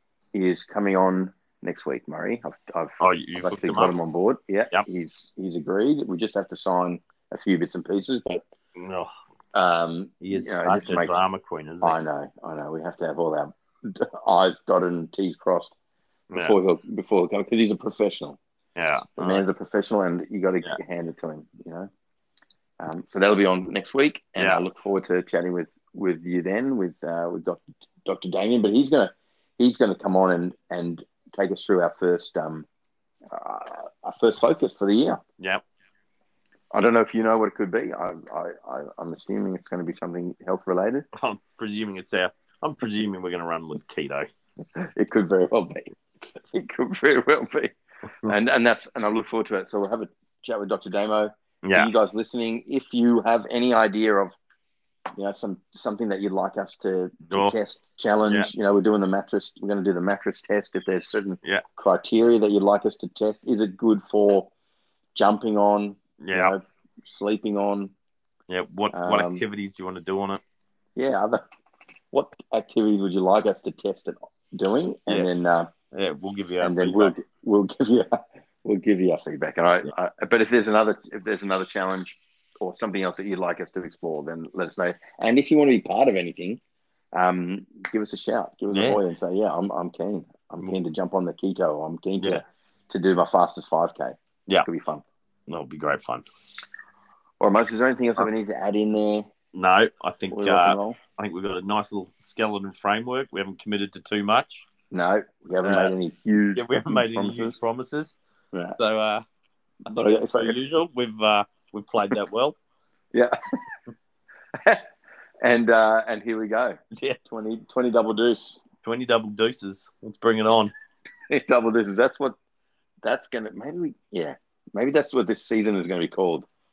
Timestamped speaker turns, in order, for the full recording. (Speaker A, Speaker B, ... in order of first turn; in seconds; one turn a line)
Speaker A: 0.3-8.4
Speaker B: 3.0-4.0
Speaker B: 8.8-9.1
Speaker A: 9.5-11.2
Speaker B: 10.2-12.0
Speaker A: 11.8-15.8
Speaker A: 16.4-18.4
Speaker B: 18.8-19.4
Speaker A: 19.2-21.9
Speaker A: 22.8-32.7
Speaker B: 24.4-24.6
Speaker A: 33.3-35.2
Speaker A: 36.7-41.1
Speaker B: 41.1-44.3
Speaker A: 44.8-54.4
Speaker B: 51.6-51.9
Speaker A: 55.2-64.5
Speaker B: 57.3-57.6
Speaker A: 65.2-67.9
Speaker B: 66.2-66.5
Speaker B: 68.5-70.4
Speaker A: 68.9-69.4
Speaker A: 71.0-71.4
Speaker A: 72.1-75.7
Speaker B: 75.9-77.1
Speaker A: 76.6-86.6
Speaker A: 87.1-95.0
Speaker B: 88.7-89.0
Speaker B: 95.5-96.2
Speaker A: 97.4-99.3
Speaker B: 99.5-104.7
Speaker A: 100.3-101.0
Speaker A: 104.9-107.6
Speaker B: 105.6-105.9
Speaker B: 106.6-108.2
Speaker B: 108.7-109.2
Speaker A: 109.9-110.6
Speaker B: 109.9-112.6
Speaker A: 114.6-114.9
Speaker A: 115.4-118.6
Speaker B: 118.8-120.7
Speaker A: 121.3-122.4
Speaker A: 123.0-126.5